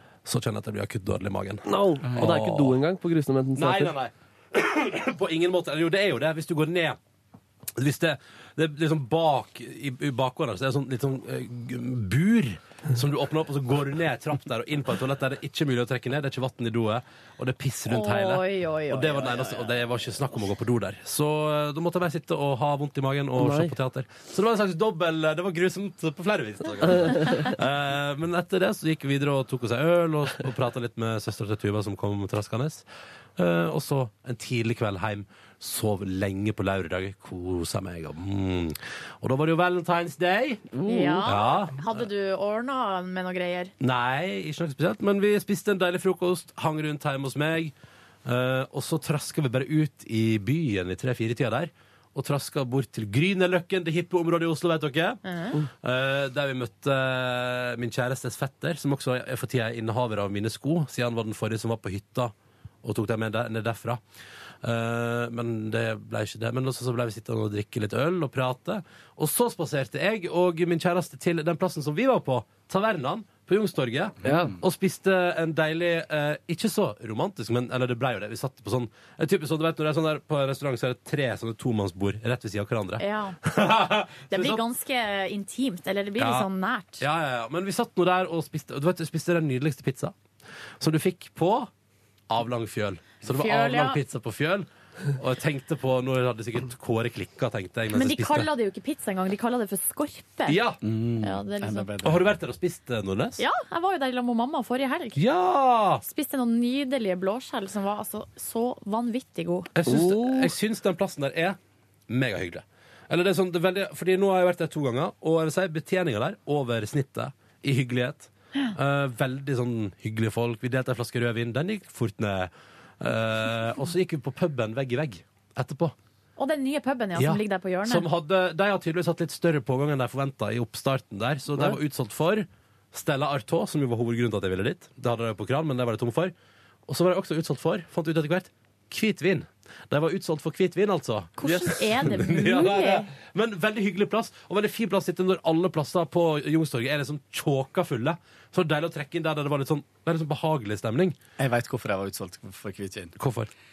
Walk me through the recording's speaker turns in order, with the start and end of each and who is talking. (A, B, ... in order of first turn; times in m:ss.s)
0:00.2-0:02.8 A
0:01.6-0:03.9 B
0:02.0-0:02.3 C
0:03.6-0:07.0 A
0:07.8-0:32.8 A
0:17.9-0:19.6 D
0:23.4-0:23.7 B
0:26.9-0:27.2 B
0:33.4-0:40.7 A
0:40.7-0:41.2 B
0:40.9-0:43.7 D
0:41.2-0:42.0 A
0:43.8-0:47.7 A
0:48.2-1:04.0 A
1:04.6-1:24.6 A
1:14.2-1:14.5 B
1:14.2-1:14.6 C
1:23.0-1:23.4 D
1:24.3-1:27.0 D
1:26.2-1:26.5 A
1:27.0-1:30.1 A
1:30.8-1:31.7 A
1:32.3-1:38.5 A
1:33.2-1:34.0 D
1:37.9-1:40.6 D
1:40.5-1:40.8 A
1:40.8-1:42.3 C
1:41.2-1:41.9 D
1:42.0-1:43.4 A
1:43.4-1:45.2 D
1:45.2-1:46.0 A
1:46.0-1:49.7 D
1:49.7-2:05.9 A
1:49.8-1:50.5 B
2:06.4-2:08.0 D
2:07.2-2:16.3 A
2:16.9-2:31.2 A
2:21.4-2:23.1 D
2:31.4-2:33.1 C
2:33.2-2:33.5 A